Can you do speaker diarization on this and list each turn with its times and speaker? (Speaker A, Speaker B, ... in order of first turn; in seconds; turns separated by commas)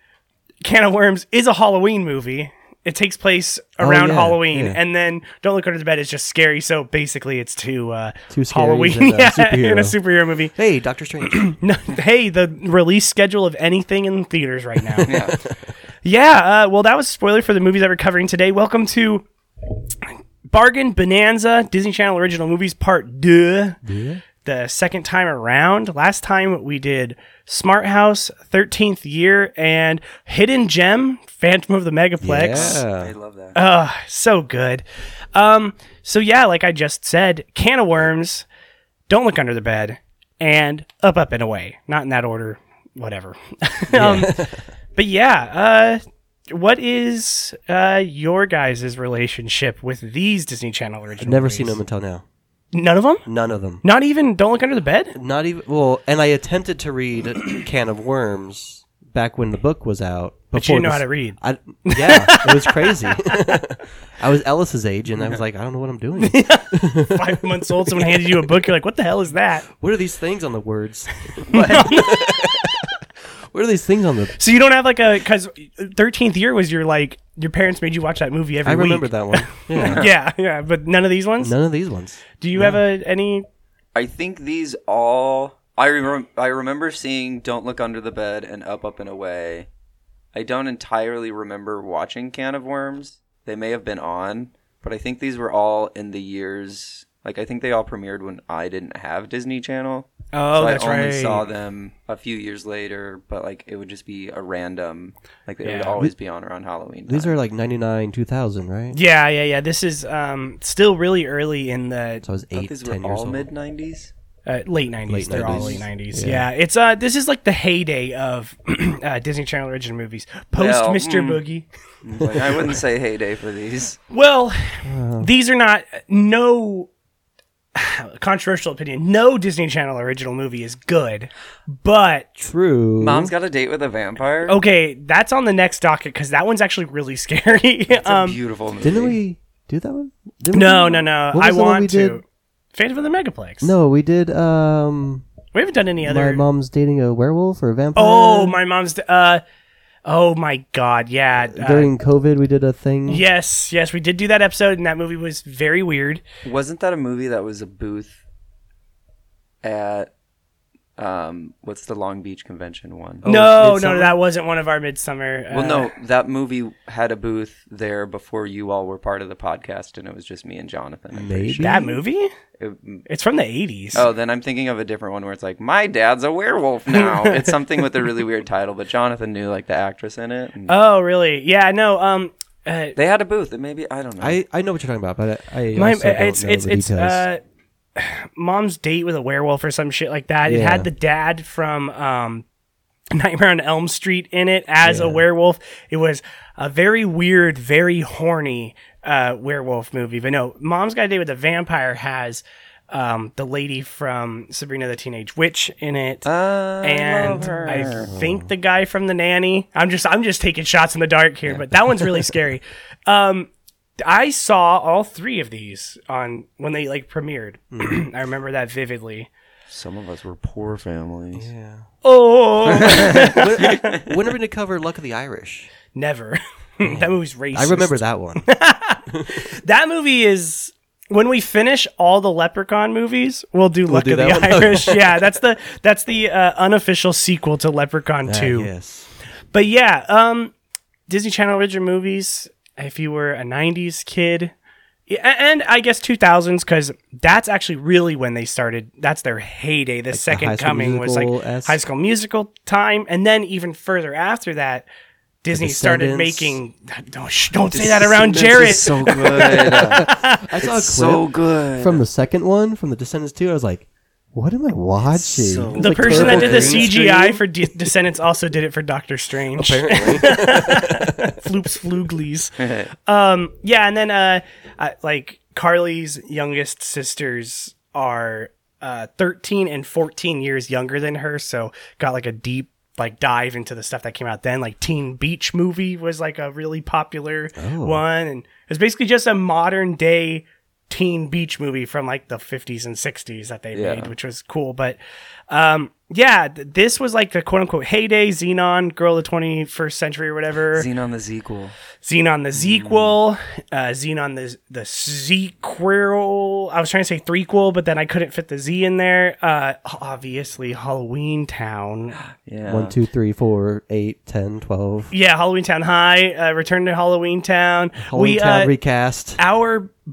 Speaker A: 0.6-10.5, Speaker B: 3.8-4.8, Speaker B: 8.3-10.0, Speaker B: 10.5-11.5, Speaker A: 11.2-15.2, Speaker B: 14.9-15.5, Speaker C: 15.0-15.4, Speaker A: 16.0-19.2, Speaker A: 20.5-23.8, Speaker B: 23.8-24.2, Speaker A: 24.4-32.8, Speaker B: 32.2-33.1, Speaker C: 32.5-33.6, Speaker A: 33.5-34.8, Speaker A: 35.3-38.5, Speaker A: 39.1-44.4, Speaker B: 43.9-44.7, Speaker A: 45.0-51.8, Speaker B: 51.2-52.2, Speaker A: 52.7-53.2, Speaker B: 53.2-53.8, Speaker A: 53.8-55.1, Speaker B: 55.1-68.6, Speaker A: 60.5-63.6, Speaker A: 66.2-69.7, Speaker B: 69.7-72.9, Speaker A: 71.5-72.3, Speaker C: 71.5-71.9, Speaker B: 73.5-74.3, Speaker A: 74.4-81.5, Speaker B: 78.6-80.1, Speaker C: 79.8-80.1, Speaker B: 81.4-82.8, Speaker A: 82.4-83.5, Speaker C: 83.9-89.7, Speaker C: 90.3-107.3, Speaker A: 100.3-101.4, Speaker A: 105.6-106.0, Speaker B: 107.1-109.0, Speaker A: 108.9-112.2, Speaker B: 112.2-113.5, Speaker C: 112.5-114.1, Speaker A: 114.5-121.7, Speaker B: 115.1-116.5, Speaker C: 115.4-115.8, Speaker C: 120.5-121.4, Speaker C: 122.0-124.0, Speaker A: 124.1-126.9, Speaker B: 124.8-125.3, Speaker A: 127.7-132.3, Speaker B: 132.4-133.3, Speaker C: 133.0-134.6, Speaker A: 134.5-138.3, Speaker C: 137.9-139.2, Speaker B: 138.8-142.2, Speaker A: 140.5-143.7, Speaker B: 143.6-145.2, Speaker A: 145.5-146.4, Speaker B: 146.0-148.6, Speaker A: 147.9-149.4, Speaker A: 150.0-151.9, Speaker B: 151.5-153.2, Speaker A: 153.1-156.2, Speaker C: 156.4-158.2, Speaker C: 159.6-160.1, Speaker C: 161.0-163.2, Speaker B: 163.2-164.2, Speaker A: 163.2-165.9, Speaker C: 165.5-171.6, Speaker B: 171.1-172.0, Speaker A: 171.6-172.3, Speaker C: 172.6-173.0, Speaker A: 173.1-174.1, Speaker C: 173.9-180.8, Speaker A: 176.9-177.6, Speaker A: 180.7-182.9, Speaker C: 182.9-184.4, Speaker B: 184.2-187.2, Speaker A: 185.8-187.4, Speaker A: 187.9-192.4, Speaker B: 190.4-190.9, Speaker A: 193.1-206.3, Speaker B: 194.8-195.2, Speaker C: 206.2-208.1, Speaker A: 206.8-219.3, Speaker B: 208.0-208.5, Speaker B: 217.7-218.0, Speaker C: 219.7-221.5, Speaker B: 221.3-221.9, Speaker A: 222.0-224.0, Speaker B: 222.7-225.7, Speaker C: 222.8-224.0, Speaker A: 225.9-238.7, Speaker B: 226.8-228.4, Speaker B: 233.8-235.3, Speaker B: 238.2-239.1, Speaker A: 239.5-240.5, Speaker A: 241.1-244.5, Speaker A: 245.1-254.8, Speaker B: 250.1-251.8, Speaker A: 255.4-260.5, Speaker B: 255.5-256.6, Speaker C: 257.7-260.1, Speaker B: 259.3-267.3, Speaker C: 260.6-262.0, Speaker C: 265.1-267.4, Speaker A: 265.7-295.0, Speaker B: 269.5-271.4, Speaker C: 272.6-272.9, Speaker B: 287.6-288.0, Speaker C: 293.7-294.1, Speaker A: 295.5-300.9, Speaker C: 300.7-301.7, Speaker A: 302.0-312.1, Speaker C: 302.5-303.1, Speaker C: 312.2-312.9, Speaker B: 312.7-315.1, Speaker A: 315.1-318.7, Speaker B: 318.0-319.4, Speaker A: 319.4-319.9